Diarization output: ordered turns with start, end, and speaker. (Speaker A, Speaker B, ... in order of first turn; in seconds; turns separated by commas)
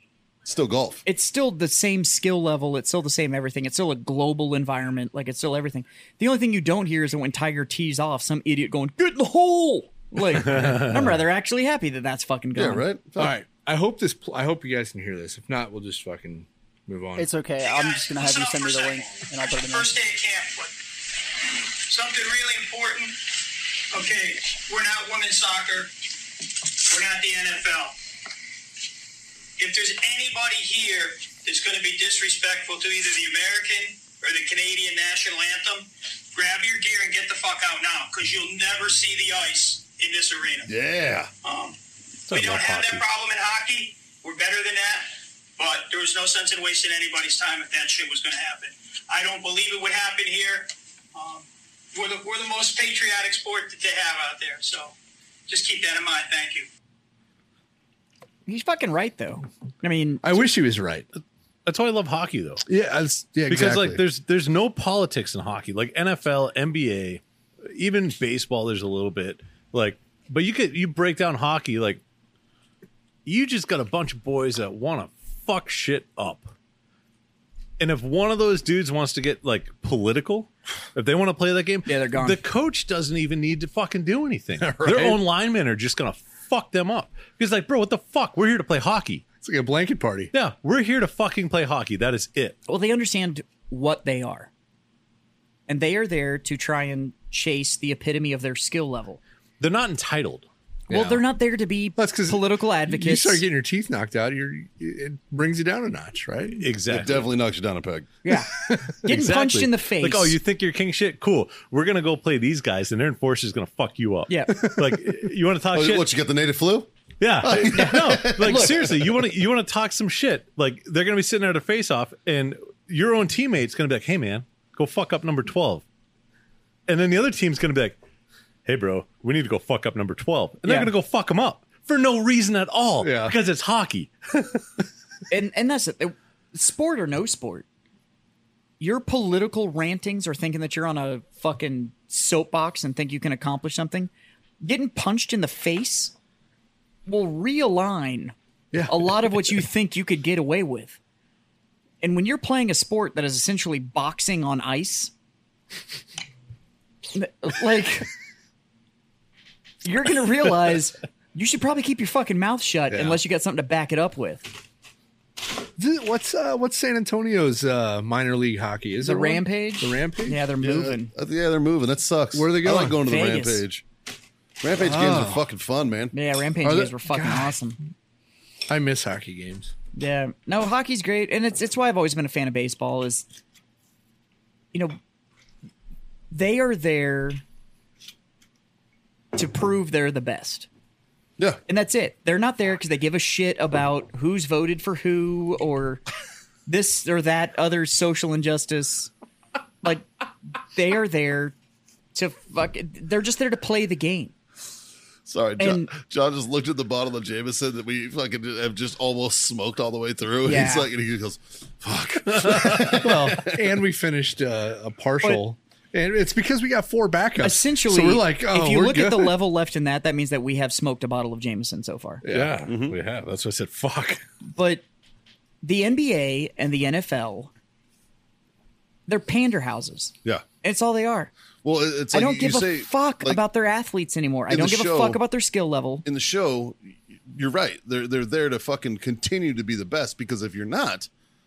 Speaker A: 0.5-1.0, Speaker B: 1.0-12.8, Speaker C: 10.5-10.9, Speaker A: 12.5-13.3, Speaker D: 13.2-17.3, Speaker E: 17.2-20.0, Speaker F: 17.6-20.8, Speaker F: 21.8-23.2, Speaker F: 23.9-25.9, Speaker F: 26.8-27.9, Speaker F: 29.6-40.7, Speaker A: 40.7-41.3, Speaker F: 41.4-41.8, Speaker C: 42.3-43.0, Speaker F: 42.3-55.0, Speaker F: 55.5-56.7, Speaker B: 58.5-60.4, Speaker D: 60.2-61.0, Speaker C: 61.6-62.6, Speaker D: 62.6-64.0, Speaker C: 63.5-72.0, Speaker C: 73.2-76.5, Speaker C: 77.8-89.2, Speaker B: 81.9-82.4, Speaker D: 84.6-85.2, Speaker D: 89.4-90.3, Speaker C: 90.3-92.6, Speaker B: 92.7-94.5, Speaker B: 95.7-99.2, Speaker C: 99.6-100.5, Speaker D: 100.9-101.2, Speaker B: 100.9-103.4, Speaker D: 102.0-106.7, Speaker C: 106.6-107.3, Speaker A: 106.9-108.1, Speaker B: 108.2-108.5, Speaker B: 109.0-110.4, Speaker C: 109.0-116.1, Speaker B: 114.3-114.6, Speaker D: 114.5-115.0, Speaker A: 115.7-116.9, Speaker C: 117.2-125.8, Speaker A: 117.4-119.2, Speaker C: 126.9-128.0, Speaker C: 128.7-134.6, Speaker B: 130.6-130.9, Speaker D: 133.0-133.4, Speaker B: 135.3-137.7, Speaker B: 138.8-146.1, Speaker B: 147.1-148.3, Speaker D: 148.7-149.3, Speaker B: 148.8-151.0, Speaker B: 152.0-155.1, Speaker B: 157.1-158.1, Speaker B: 159.8-164.6, Speaker D: 162.9-163.2, Speaker D: 165.8-170.4, Speaker B: 169.0-171.1, Speaker A: 170.6-173.8, Speaker D: 172.3-173.0, Speaker B: 172.9-173.6, Speaker A: 174.6-176.1, Speaker D: 174.8-175.4, Speaker B: 176.1-177.8, Speaker D: 176.6-177.5, Speaker D: 178.7-179.7, Speaker B: 179.9-183.2, Speaker B: 186.3-187.4, Speaker B: 189.3-190.7, Speaker B: 191.7-196.0, Speaker B: 196.7-199.1, Speaker B: 200.6-201.5, Speaker B: 202.1-204.3, Speaker A: 205.2-213.6, Speaker B: 205.6-205.9, Speaker B: 210.4-210.9, Speaker C: 212.3-213.0, Speaker D: 212.9-219.3, Speaker B: 217.4-222.2, Speaker D: 222.2-223.2, Speaker C: 222.3-224.2, Speaker A: 222.7-222.9, Speaker B: 224.5-224.8, Speaker B: 225.6-227.5, Speaker B: 229.1-231.3, Speaker A: 231.6-233.4, Speaker B: 232.1-236.1, Speaker A: 234.5-235.2, Speaker A: 236.0-241.1